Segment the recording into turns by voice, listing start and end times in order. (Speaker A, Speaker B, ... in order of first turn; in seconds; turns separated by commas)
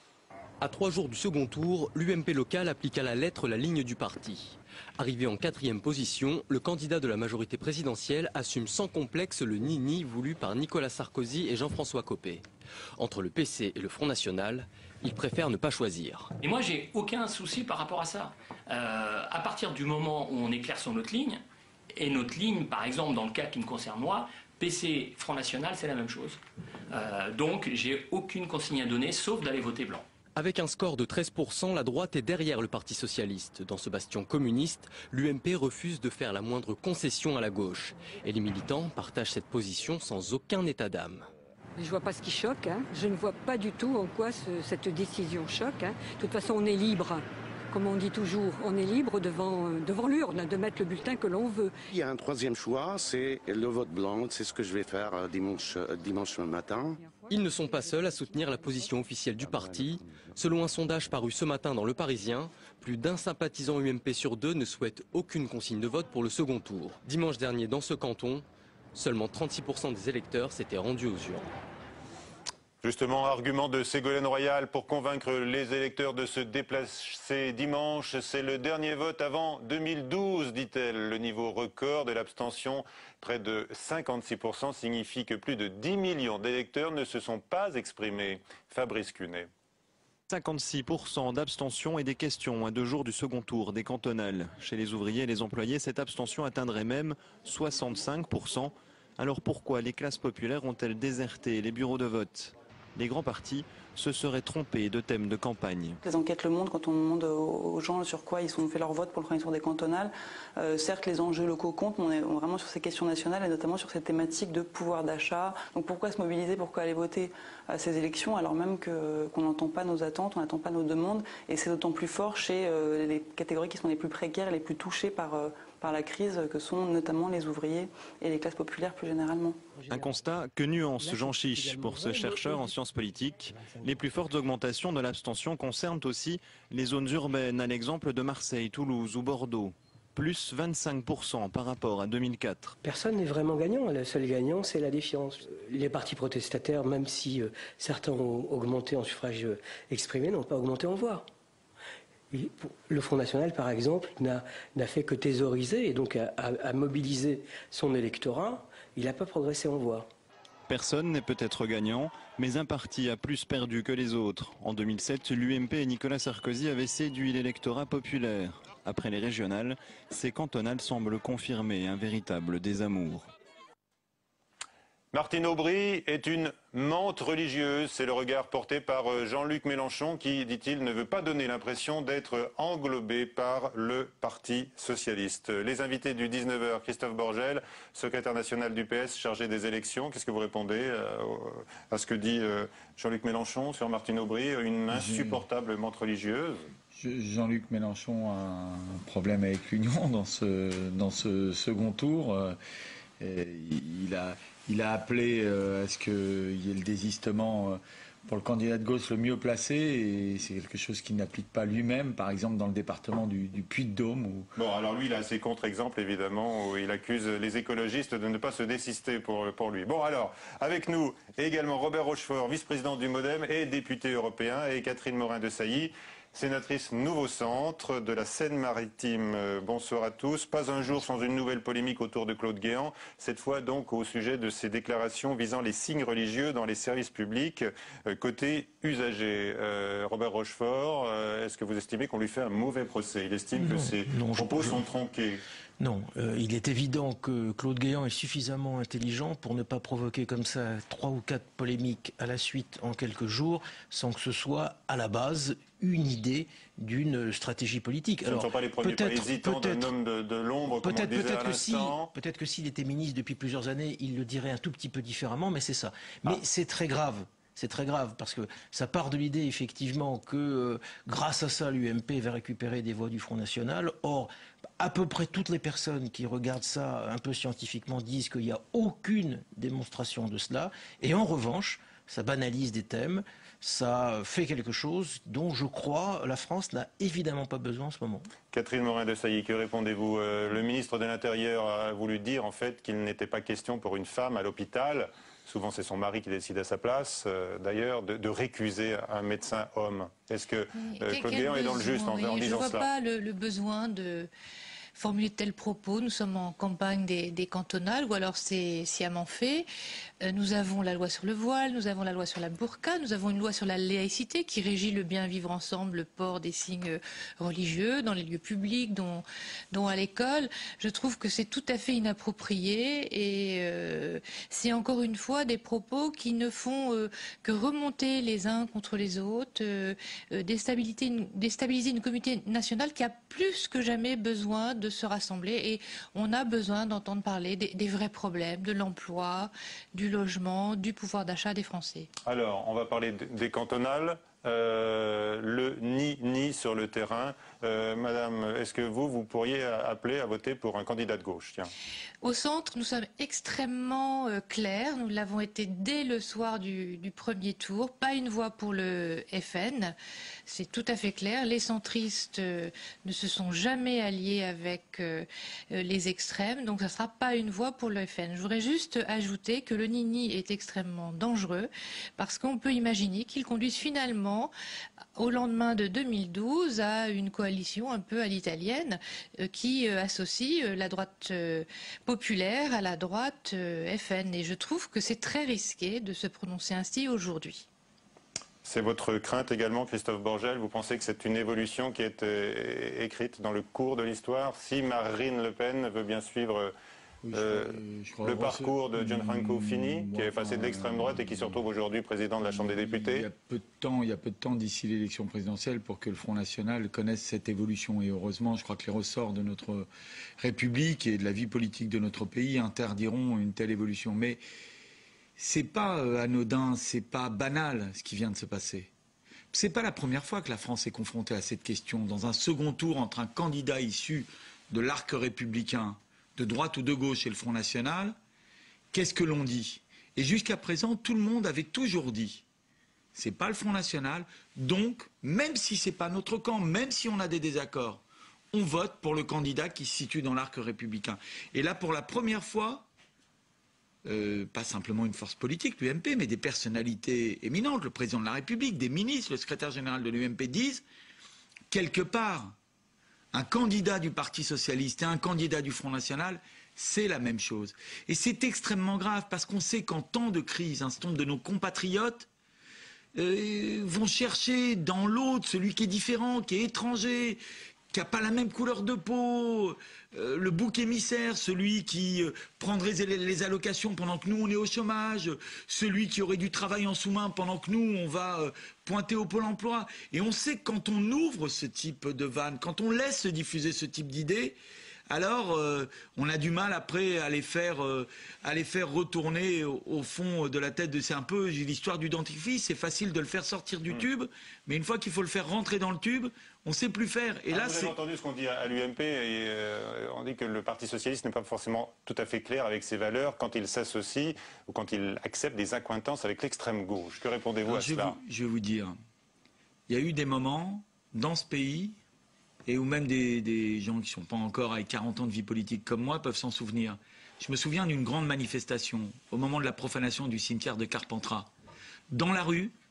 Speaker A: 0.6-12.4, Speaker A: 13.0-16.3, Speaker B: 16.4-21.4, Speaker B: 21.9-26.4, Speaker B: 26.9-30.1, Speaker A: 30.4-41.3, Speaker C: 41.8-51.8, Speaker D: 51.9-57.0, Speaker A: 57.3-71.5, Speaker D: 59.6-59.8, Speaker E: 72.8-89.5, Speaker F: 90.3-106.0, Speaker G: 106.0-129.6, Speaker H: 129.8-130.2, Speaker F: 129.9-142.8, Speaker H: 131.0-132.8, Speaker H: 133.6-134.0, Speaker H: 142.8-151.3, Speaker H: 152.3-160.1, Speaker F: 160.7-173.3, Speaker E: 175.1-196.7, Speaker I: 194.9-195.4, Speaker I: 196.9-202.6, Speaker I: 203.2-214.5, Speaker E: 214.6-245.4, Speaker J: 243.6-244.8, Speaker J: 245.8-259.9, Speaker E: 258.3-262.1, Speaker J: 260.7-288.3, Speaker E: 288.5-302.9, Speaker K: 300.8-304.3, Speaker K: 304.9-309.7, Speaker K: 310.2-342.1, Speaker E: 342.3-351.7, Speaker K: 352.2-359.9, Speaker K: 360.5-374.5, Speaker K: 375.2-387.7, Speaker E: 388.6-396.7, Speaker I: 397.3-401.5, Speaker E: 397.3-403.3, Speaker I: 402.4-409.9, Speaker I: 410.4-414.4, Speaker I: 415.4-418.9, Speaker I: 419.5-428.2, Speaker I: 428.9-432.4, Speaker I: 433.1-438.0, Speaker I: 438.5-442.9, Speaker I: 444.1-450.8, Speaker I: 451.7-452.6, Speaker I: 453.3-462.3, Speaker I: 463.1-467.4, Speaker I: 467.9-484.6, Speaker I: 485.1-497.9, Speaker E: 497.5-508.2, Speaker I: 507.7-509.0, Speaker I: 509.9-511.9, Speaker I: 512.7-521.5, Speaker I: 522.1-522.7